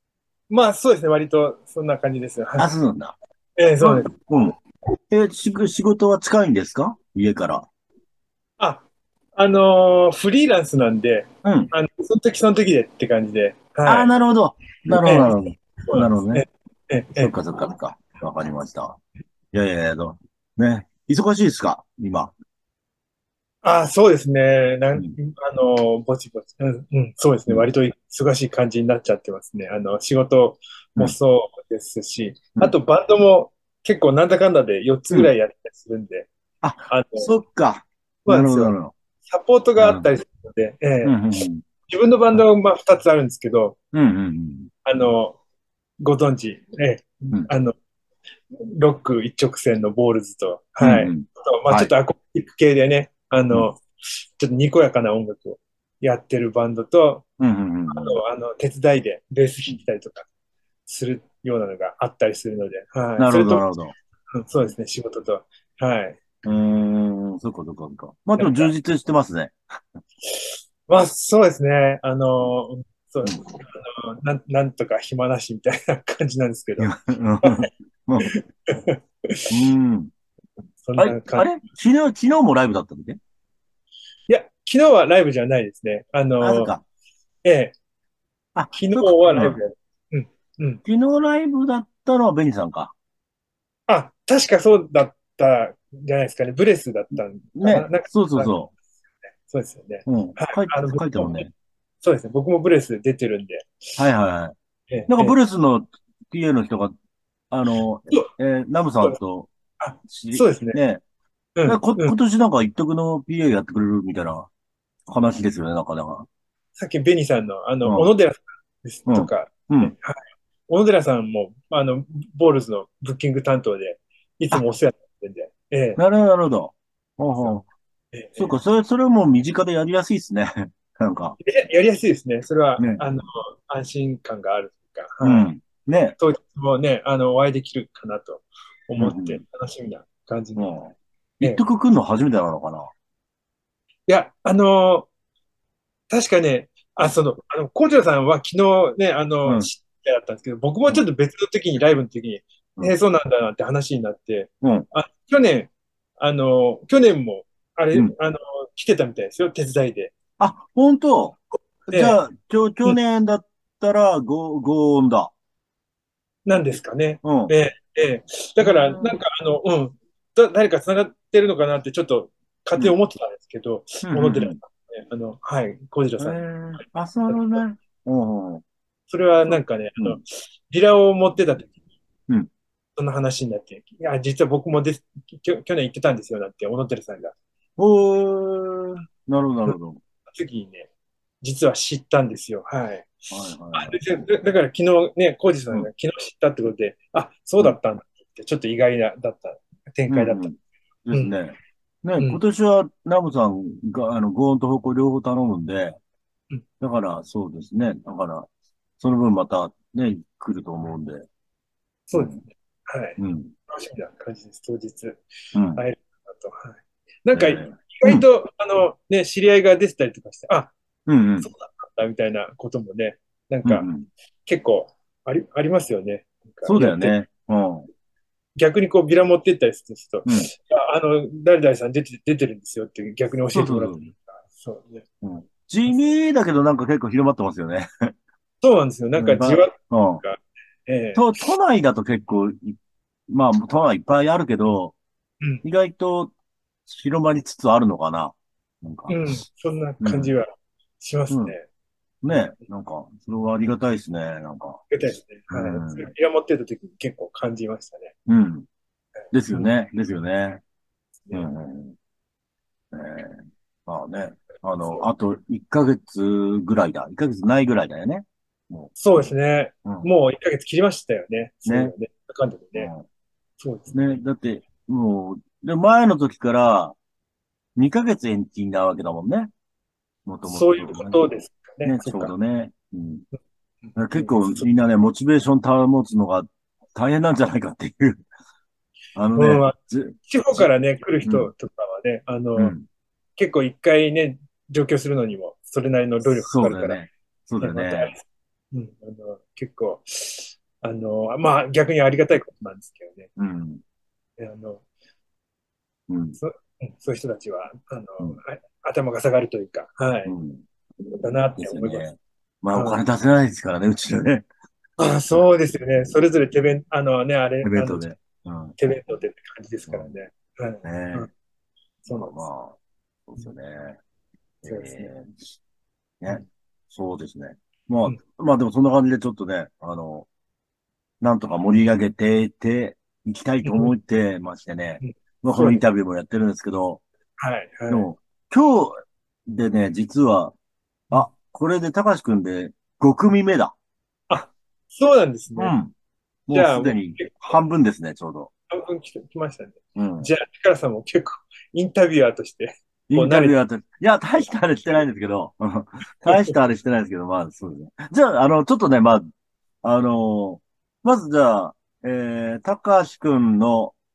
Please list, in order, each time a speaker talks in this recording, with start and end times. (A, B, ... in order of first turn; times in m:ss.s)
0:00.5-0:02.7 A
0:02.6-0:03.2 B
0:03.6-0:04.1 A
0:03.8-0:04.6 B
0:05.1-0:07.7 B
0:08.6-0:14.1 A
0:11.4-0:11.7 B
0:13.8-0:16.4 B
0:14.9-0:15.3 A
0:15.8-0:17.3 A
0:17.2-0:19.0 B
0:19.5-0:22.3 B
0:23.6-0:36.3 A
0:36.6-0:38.9 B
0:36.9-0:37.3 A
0:38.2-0:41.2 A
0:39.8-0:40.1 B
0:41.0-0:41.6 B
0:41.9-0:43.8 A
0:43.9-0:44.7 B
0:44.8-0:45.4 A
0:46.0-0:47.7 A
0:48.5-0:53.8 A
0:50.8-0:51.9 B
0:54.4-0:57.2 A
0:57.4-0:58.2 B
0:57.9-1:00.3 A
1:00.8-1:03.7 A
1:03.2-1:03.9 B
1:04.3-1:06.2 A
1:06.4-1:09.6 B
1:08.4-1:08.7 A
1:10.2-1:16.9 A
1:16.8-1:18.3 B
1:17.4-1:17.7 A
1:18.2-1:19.5 A
1:19.5-1:20.1 B
1:20.8-1:21.5 A
1:21.0-1:23.2 B
1:24.3-1:26.7 A
1:26.4-1:26.8 B
1:27.4-1:27.7 A
1:28.5-1:29.6 B
1:28.7-1:30.8 A
1:30.8-1:32.9 B
1:33.9-1:38.6 A
1:37.6-1:38.7 B
1:39.3-1:41.5 A
1:40.0-1:41.5 B
1:42.0-1:44.0 A
1:44.0-1:44.5 B
1:44.9-1:45.4 A
1:45.1-1:46.9 B
1:47.5-1:49.5 B
1:49.8-1:50.8 A
1:50.1-1:51.0 B
1:51.6-1:52.2 A
1:51.6-1:54.5 B
1:55.1-1:56.3 B
1:56.8-2:06.0 A
1:59.1-1:59.9 B
2:06.0-2:07.6 B
2:08.1-2:08.5 A
2:08.4-2:11.4 B
2:11.4-2:15.5 A
2:12.8-2:13.1 B
2:15.2-2:16.2 B
2:16.2-2:20.7 A
2:19.0-2:19.4 B
2:20.6-2:22.9 B
2:24.1-2:25.1 A
2:26.1-2:40.1 A
2:29.4-2:29.7 B
2:34.6-2:34.9 B
2:40.4-2:45.3 B
2:41.9-2:42.2 A
2:46.4-2:56.4 A
2:47.2-2:47.5 B
2:48.6-2:49.2 B
2:54.0-2:54.6 B
2:56.2-2:58.6 B
2:57.3-2:57.6 A
2:59.1-3:01.7 A
2:59.5-3:00.2 B
3:03.0-3:07.3 A
3:07.8-3:10.0 B
3:10.3-3:10.9 A
3:11.4-3:20.5 A
3:13.3-3:14.0 B
3:20.1-3:20.5 B
3:21.1-3:26.0 B
3:26.8-3:28.5 B
3:29.0-3:31.2 B
3:32.1-3:33.2 A
3:33.2-3:33.5 B
3:33.7-3:40.7 A
3:35.5-3:35.8 B
3:37.3-3:38.2 B
3:41.1-3:41.5 B
3:41.4-3:43.9 A
3:43.6-3:44.1 B
3:44.4-3:47.2 A
3:46.6-3:47.9 B
3:48.6-3:55.0 A
3:53.5-3:54.1 B
3:55.2-3:58.1 B
3:58.6-4:01.2 A
3:59.2-4:00.2 B
4:01.1-4:05.0 B
4:05.6-4:06.3 B
4:06.9-4:09.2 B
4:09.1-4:10.5 A
4:10.0-4:10.3 B
4:11.0-4:11.6 A
4:11.3-4:11.5 B
4:12.2-4:15.0 B
4:14.9-4:18.1 A
4:15.5-4:16.1 B
4:18.3-4:18.7 B
4:19.3-4:20.6 B
4:19.5-4:19.7 A
4:21.2-4:21.5 A
4:21.3-4:21.9 B
4:22.9-4:29.3 B
4:24.8-4:25.0 A
4:29.0-4:32.9 A
4:31.6-4:31.9 B
4:32.7-4:33.0 B
4:33.6-4:34.1 A
4:33.9-4:37.0 B
4:37.8-4:39.5 B
4:40.2-4:41.2 B
4:40.4-4:42.3 A
4:41.8-4:43.2 B
4:43.3-4:44.7 A
4:43.9-4:48.3 B
4:49.2-4:50.7 B
4:49.3-4:49.7 A
4:50.2-4:52.7 A
4:51.2-4:51.5 B
4:52.6-4:52.8 B
4:53.4-4:57.0 A
4:56.2-4:58.1 B
4:57.6-5:03.3 A
5:03.4-5:03.8 B
5:04.4-5:04.8 A
5:06.1-5:06.4 B
5:06.4-5:10.3 A
5:10.2-5:10.6 B
5:11.2-5:12.0 A
5:11.5-5:14.5 B
5:12.7-5:13.0 A
5:15.0-5:18.1 A
5:17.6-5:18.8 B
5:18.8-5:21.3 A
5:20.8-5:21.3 B
5:22.0-5:22.4 A
5:22.1-5:22.8 B
5:23.3-5:24.0 B
5:24.6-5:25.4 B
5:24.6-5:25.1 A
5:26.2-5:30.3 B
5:31.2-5:37.0 B
5:33.6-5:34.0 A
5:35.0-5:35.8 A
5:37.4-5:38.1 A
5:37.9-5:40.5 B
5:41.1-5:43.7 B
5:44.3-5:45.8 A
5:45.6-5:45.9 B
5:46.5-5:48.5 B
5:46.5-5:47.6 A
5:48.7-5:53.6 A
5:50.0-5:50.3 B
5:53.1-5:59.2 B
5:54.4-5:55.0 A
5:56.2-5:56.5 A
5:59.8-6:03.9 B